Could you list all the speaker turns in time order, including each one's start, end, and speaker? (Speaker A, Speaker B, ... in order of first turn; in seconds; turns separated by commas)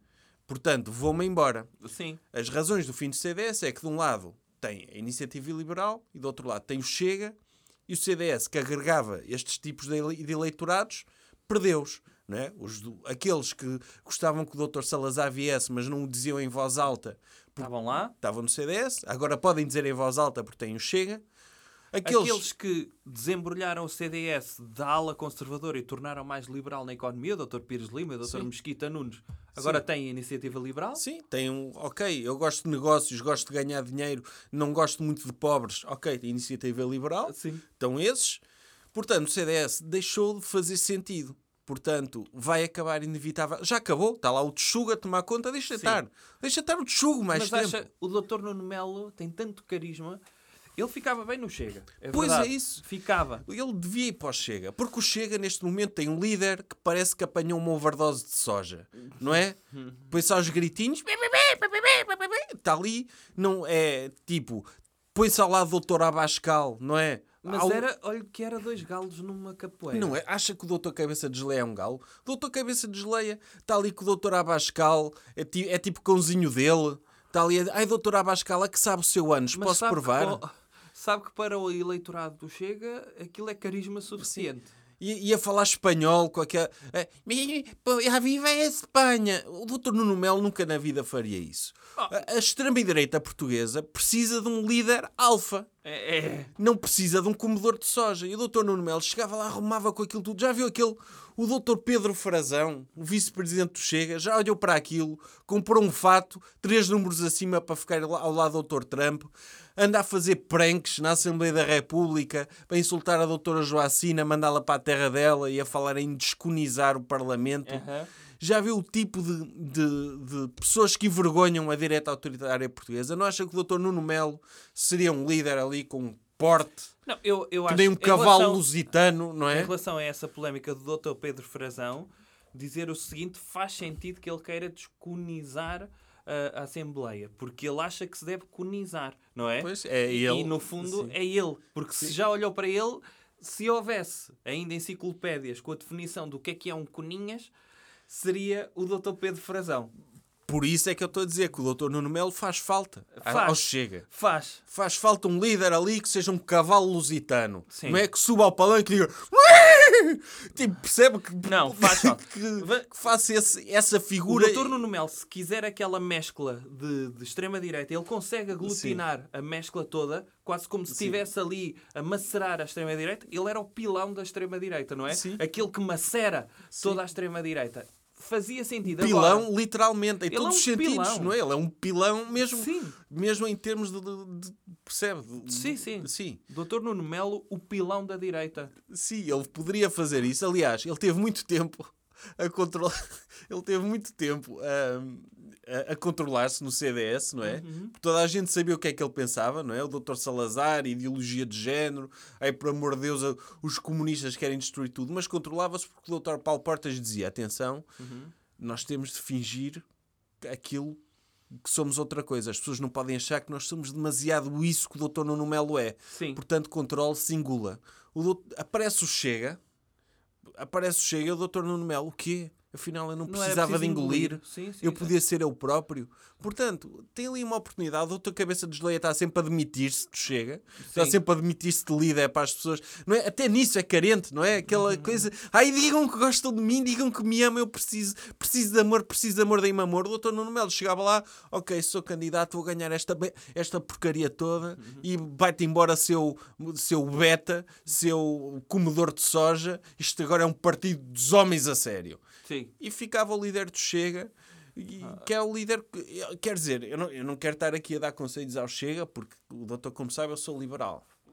Speaker A: 0.5-1.7, Speaker B: 1.8-2.2, Speaker A: 2.3-21.2, Speaker B: 17.6-18.1, Speaker A: 21.9-22.5, Speaker B: 22.0-31.0, Speaker A: 29.6-29.8, Speaker A: 31.0-38.4, Speaker B: 37.2-37.6, Speaker A: 38.9-47.8, Speaker B: 45.7-46.0, Speaker B: 47.3-50.2, Speaker B: 50.8-53.4, Speaker A: 52.1-52.8, Speaker A: 53.4-59.6, Speaker B: 59.7-60.0, Speaker A: 60.1-67.8, Speaker B: 67.4-70.2, Speaker A: 69.9-80.4, Speaker B: 79.5-84.7, Speaker A: 84.2-95.7, Speaker B: 95.8-96.5, Speaker A: 96.5-117.8, Speaker B: 117.6-118.1, Speaker A: 118.4-126.9, Speaker B: 127.0-128.7, Speaker A: 127.7-129.7, Speaker B: 129.5-147.5, Speaker A: 139.6-141.1, Speaker B: 148.1-149.9, Speaker A: 150.5-154.1, Speaker B: 153.1-154.6, Speaker A: 154.7-164.8, Speaker B: 157.7-158.0, Speaker B: 161.4-162.9, Speaker B: 164.3-179.5, Speaker A: 168.6-169.0, Speaker A: 170.9-171.2, Speaker A: 175.1-175.4, Speaker A: 178.9-186.4, Speaker B: 180.3-181.4, Speaker B: 182.4-183.0, Speaker B: 185.4-188.7, Speaker A: 188.9-207.8, Speaker B: 197.4-197.9, Speaker B: 208.0-208.3, Speaker A: 208.6-209.8, Speaker A: 210.4-211.0, Speaker A: 211.5-219.6, Speaker B: 216.1-216.4, Speaker A: 220.5-252.2, Speaker B: 223.2-225.1, Speaker B: 230.8-231.2, Speaker B: 234.7-235.3, Speaker B: 244.8-245.0, Speaker B: 252.4-252.7, Speaker A: 252.8-261.0